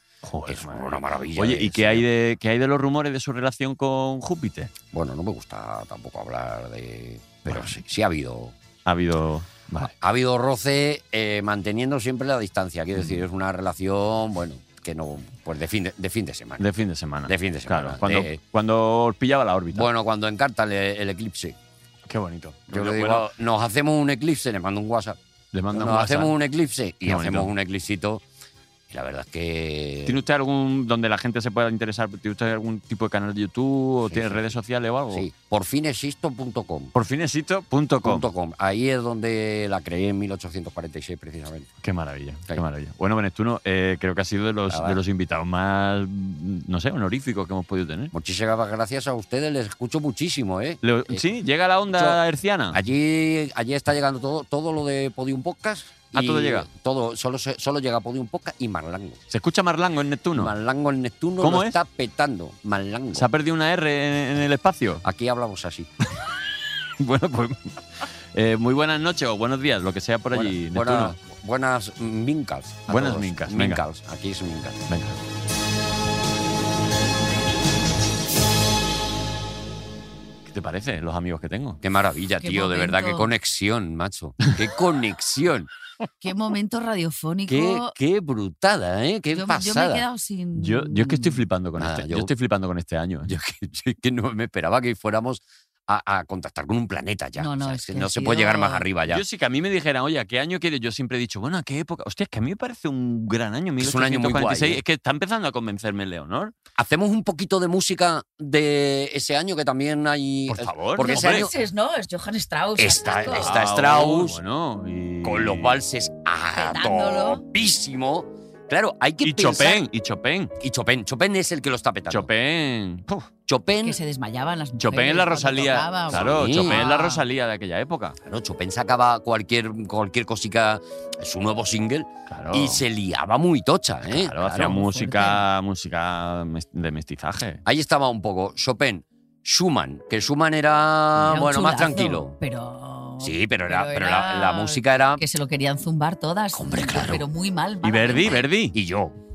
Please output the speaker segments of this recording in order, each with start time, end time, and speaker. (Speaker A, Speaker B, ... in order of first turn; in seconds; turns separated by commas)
Speaker A: 0.2-4.7, Speaker B: 0.5-2.1, Speaker B: 4.9-8.6, Speaker A: 7.5-7.8, Speaker A: 8.8-9.9, Speaker B: 9.8-16.6, Speaker A: 16.6-19.9, Speaker B: 17.3-18.4, Speaker B: 19.7-21.6, Speaker A: 22.1-23.3, Speaker B: 22.7-25.2, Speaker A: 25.5-26.3, Speaker B: 25.7-28.2, Speaker A: 27.1-27.5, Speaker B: 28.9-30.2, Speaker A: 30.1-35.3, Speaker B: 34.1-34.5, Speaker B: 35.1-36.9, Speaker A: 37.0-38.2, Speaker B: 38.0-41.7, Speaker A: 41.8-48.1, Speaker B: 44.7-45.0, Speaker B: 48.1-51.2, Speaker A: 50.8-52.8, Speaker B: 51.9-52.2, Speaker B: 52.7-59.2, Speaker A: 56.1-56.7, Speaker A: 59.3-60.5, Speaker B: 60.4-63.3, Speaker A: 61.4-61.8, Speaker A: 63.1-65.0, Speaker B: 65.0-65.9, Speaker A: 67.0-67.7, Speaker A: 68.3-71.2, Speaker B: 70.3-74.8, Speaker A: 72.9-73.8, Speaker A: 74.9-75.2, Speaker A: 80.5-81.8, Speaker B: 81.8-85.7, Speaker C: 82.4-83.3, Speaker C: 86.2-88.0, Speaker B: 87.5-90.0, Speaker C: 89.3-91.4, Speaker A: 90.5-93.3, Speaker B: 91.8-92.3, Speaker B: 93.3-99.2, Speaker C: 97.4-98.8, Speaker A: 99.1-106.6, Speaker B: 103.8-104.8, Speaker B: 106.8-111.5, Speaker A: 110.5-111.5, Speaker C: 111.0-113.5, Speaker B: 112.8-114.4, Speaker A: 113.4-115.8, Speaker B: 115.2-119.8, Speaker C: 116.5-117.4, Speaker A: 119.2-120.5, Speaker B: 120.6-122.3, Speaker A: 122.1-123.3, Speaker B: 123.5-124.0, Speaker C: 123.8-127.2, Speaker A: 124.8-128.2, Speaker B: 126.1-126.8, Speaker B: 128.2-134.8, Speaker A: 132.3-132.8, Speaker A: 134.1-137.6, Speaker C: 134.6-135.4, Speaker B: 137.7-142.4, Speaker C: 141.2-148.5, Speaker B: 143.2-145.2, Speaker B: 146.5-147.3, Speaker A: 147.8-148.8, Speaker B: 148.7-149.2